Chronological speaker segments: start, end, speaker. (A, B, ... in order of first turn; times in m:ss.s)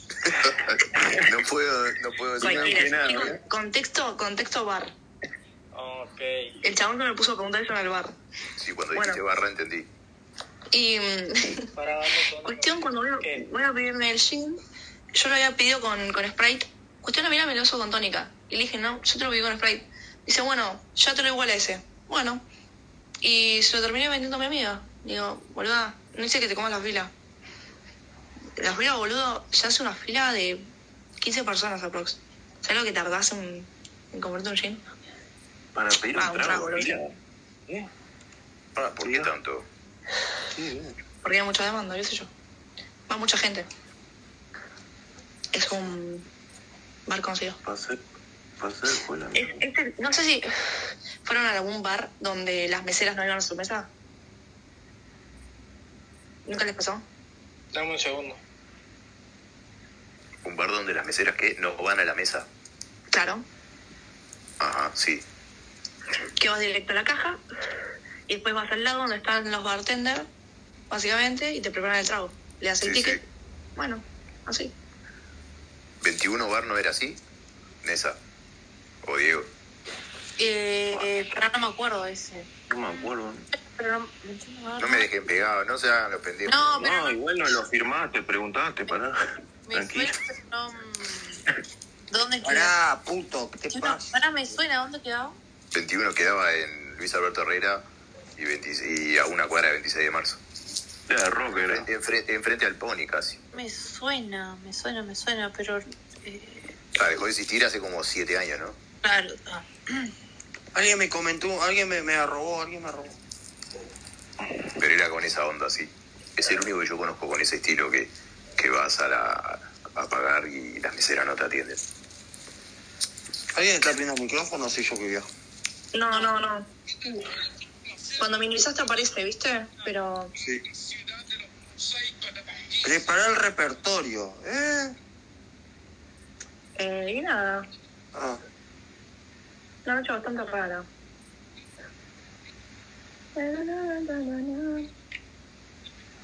0:00.5-0:02.9 A
0:01.0-0:01.2 B
0:02.4-0:03.4 B
0:02.4-0:04.9 C
0:05.7-0:06.5 D
0:06.6-0:08.2 C
0:08.6-0:09.9 A
0:08.9-0:09.2 C
0:10.7-0:11.7 C
0:11.8-0:13.5 D
0:12.4-0:14.6 C
0:15.2-0:22.4 C
0:23.2-0:27.1 C
0:28.6-0:30.6 C
0:31.2-0:34.8 C
0:35.8-0:37.1 B
0:36.2-0:37.0 C
0:38.8-0:39.7 A
0:39.0-0:39.3 B
0:40.6-0:41.0 B
0:41.2-0:42.3 C
0:43.1-0:43.7 C
0:45.5-0:46.3 C
0:47.1-0:47.6 C
0:47.6-0:48.0 B
0:48.6-0:49.6 B
0:49.3-0:50.5 C
0:51.2-0:53.9 C
0:56.5-0:57.0 C
0:57.7-0:58.4 D
1:00.4-1:02.5 A
1:03.1-1:03.4 C
1:04.6-1:05.2 A
1:06.4-1:07.4 C
1:08.3-1:10.3 C
1:10.9-1:13.2 C
1:12.8-1:13.2 A
1:13.8-1:14.7 C
1:16.0-1:17.2 A
1:17.8-1:18.2 A
1:19.0-1:19.5 A
1:20.4-1:25.1 E
1:22.7-1:23.5 B
1:24.8-1:26.8 A
1:26.5-1:27.2 E
1:26.8-1:29.2 B
1:29.7-1:31.4 E
1:29.7-1:30.1 B
1:32.1-1:32.7 E
1:32.4-1:34.1 F
1:33.7-1:35.4 E
1:35.7-1:37.8 A
1:38.4-1:40.4 A
1:41.1-1:41.9 B
1:41.6-1:43.4 A
1:43.5-1:46.7 E
1:47.0-1:48.8 A
1:49.0-1:50.1 E
1:50.7-1:53.2 F
1:54.8-2:01.8 A
2:03.6-2:05.3 F
2:05.9-2:06.7 C
2:06.1-2:06.3 E
2:08.2-2:10.3 C
2:12.8-2:14.9 F
2:16.8-2:17.6 C
2:18.1-2:18.4 F
2:19.8-2:20.9 C
2:23.4-2:24.9 C